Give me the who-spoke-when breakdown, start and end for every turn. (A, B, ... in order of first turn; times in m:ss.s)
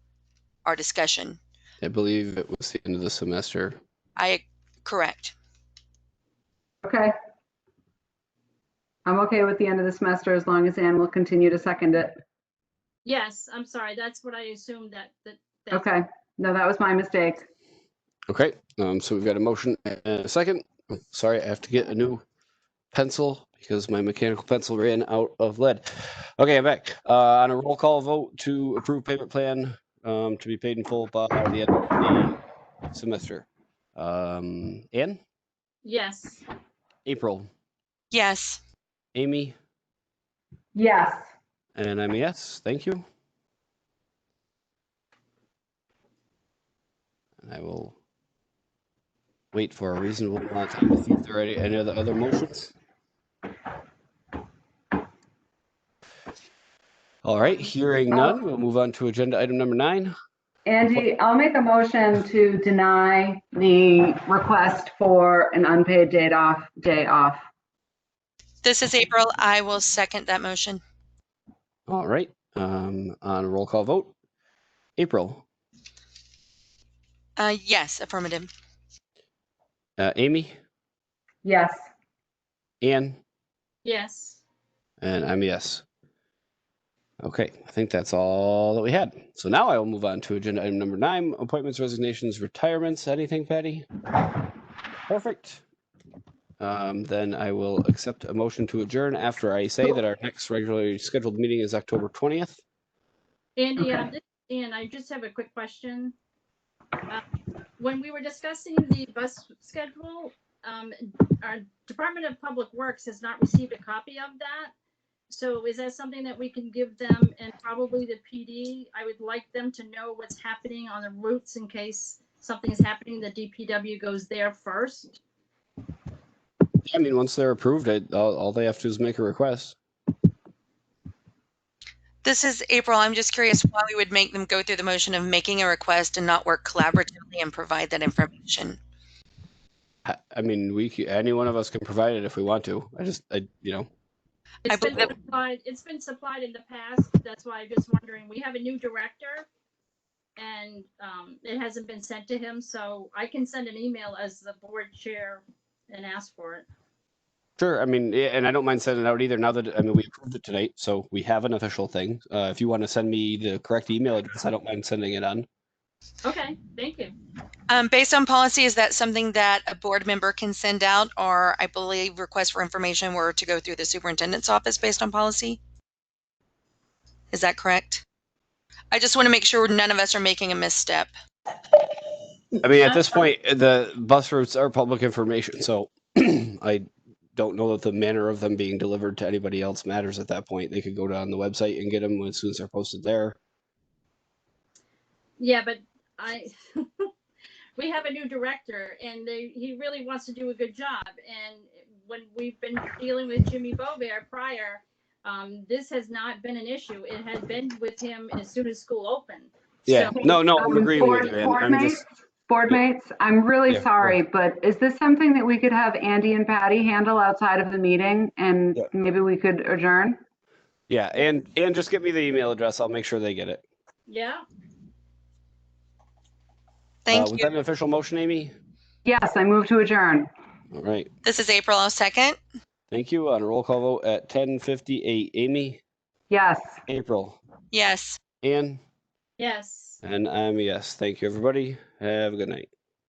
0:00.6-0:01.4 A
0:01.8-0:03.8 B
0:04.2-0:05.3 A
0:06.8-0:07.1 C
0:09.0-0:12.1 C
0:13.0-0:15.9 D
0:15.7-0:17.4 C
0:18.3-0:22.2 B
0:22.9-0:32.4 B
0:32.9-0:35.2 B
0:35.8-0:36.4 D
0:37.0-0:37.5 B
0:38.1-0:38.6 A
0:39.1-0:39.5 B
0:40.7-0:41.2 C
0:41.8-0:43.0 B
0:47.4-0:47.9 B
0:49.5-0:52.7 B
0:57.2-1:00.1 B
0:58.1-0:58.4 C
1:00.6-1:07.4 C
1:08.6-1:10.8 A
1:11.9-1:14.1 B
1:15.0-1:15.4 B
1:17.4-1:18.5 A
1:20.0-1:20.6 B
1:21.4-1:21.8 C
1:22.8-1:23.2 B
1:23.8-1:24.4 D
1:25.0-1:25.8 B
1:27.2-1:33.9 B
1:35.1-1:35.6 B
1:36.6-1:42.6 B
1:43.6-1:46.1 D
1:47.8-1:54.7 D
1:55.3-2:05.2 D
2:06.8-2:09.8 B
2:12.2-2:18.8 A
2:20.0-2:23.9 B
2:24.6-2:29.5 D
2:24.7-2:25.1 A
2:30.4-2:36.6 D
2:37.6-2:45.4 B
2:46.2-2:47.1 D
2:47.7-2:55.6 A
2:57.3-2:58.0 A
2:58.9-3:01.1 A
3:02.6-3:13.4 B
3:15.4-3:17.1 D
3:17.8-3:31.5 D
3:29.9-3:32.0 B
3:30.1-3:40.2 C
3:33.7-3:34.2 B
3:40.9-3:43.6 B
3:44.1-3:44.4 D
3:47.0-3:47.5 A
3:47.1-3:48.5 B
3:49.0-3:50.3 C
3:50.7-3:51.1 B
3:51.2-3:52.4 A
3:52.9-3:55.8 B
3:56.3-3:56.8 C
3:56.9-3:57.4 B
3:57.7-3:58.2 A
3:58.4-3:58.8 B
3:59.4-4:00.0 D
4:00.0-4:02.7 B